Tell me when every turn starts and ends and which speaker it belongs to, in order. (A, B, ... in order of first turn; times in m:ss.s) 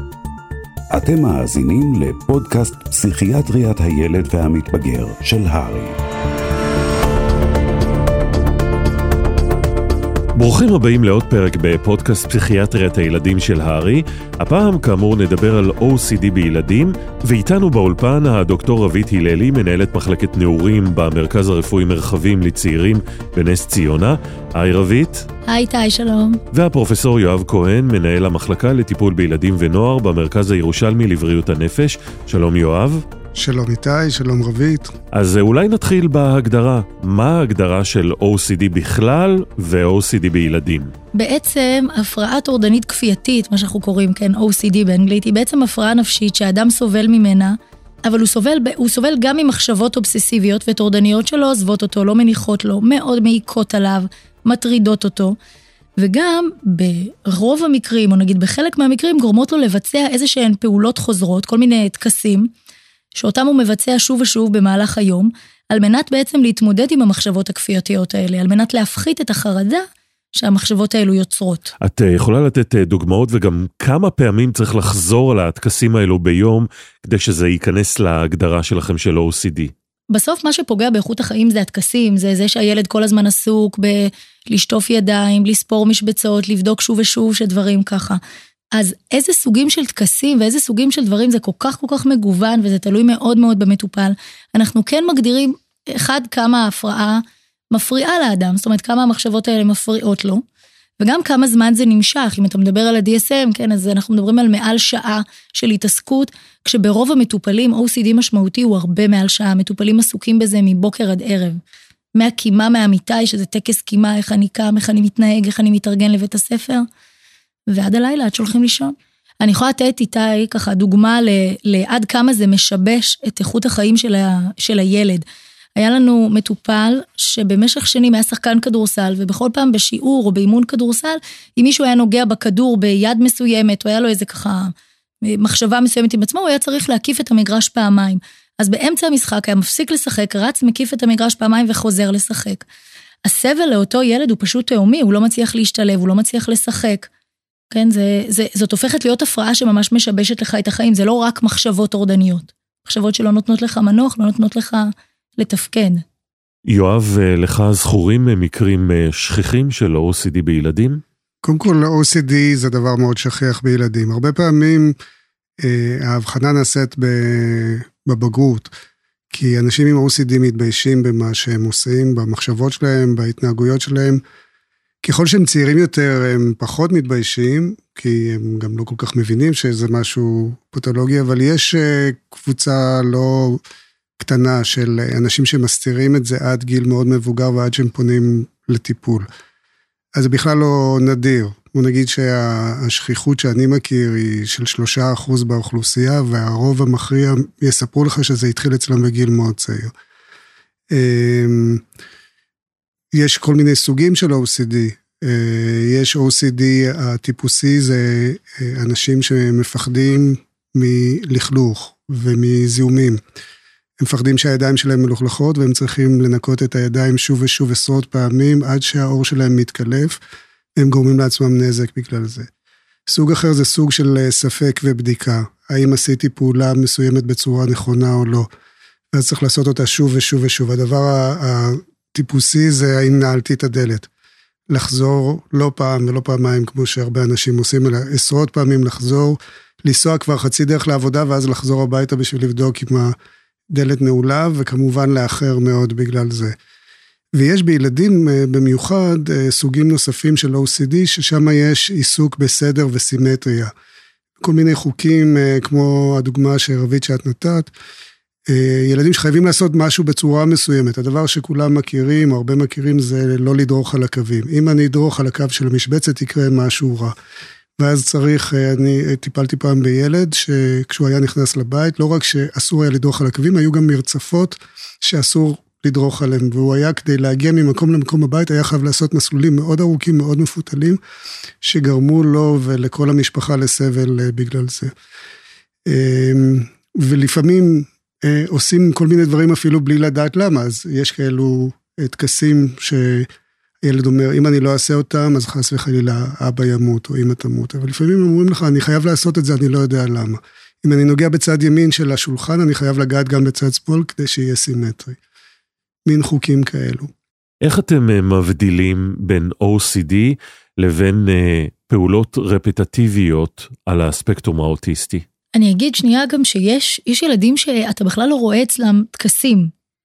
0:00.9-0:06.0 A
0:10.4-0:25.3 B
0:25.5-0:26.4 C
0:26.5-0:33.0 B
0:33.4-0:34.9 D
0:35.1-0:40.9 B
0:41.1-0:55.4 C
0:56.0-1:02.5 C
1:03.1-1:11.7 C
1:11.8-1:19.7 B
1:20.1-1:28.2 C
1:28.7-1:40.4 C
1:41.0-1:51.6 C
1:52.1-1:56.8 C
1:57.7-2:05.2 C
2:05.8-2:22.6 C
2:23.2-2:27.1 C
2:27.7-2:36.0 C
2:36.7-2:41.0 B
2:41.4-2:45.0 D
2:45.6-2:48.7 D
2:49.3-2:54.2 D
2:55.0-3:03.6 D
3:04.2-3:09.2 D
3:10.1-3:19.9 D
3:20.9-3:21.8 D
3:23.1-3:33.2 D
3:34.0-3:40.2 D
3:40.8-3:42.5 D
3:43.1-3:48.5 D
3:49.1-3:54.1 D
3:54.7-4:03.1 D
4:03.7-4:06.5 D
4:07.3-4:13.7 D
4:14.4-4:17.7 D
4:18.5-4:27.1 D
4:27.8-4:41.0 D
4:41.6-4:44.9 D
4:45.9-4:53.3 D
4:53.8-5:05.2 D
5:06.1-5:07.1 D
5:07.6-5:15.2 B
5:15.5-5:19.7 C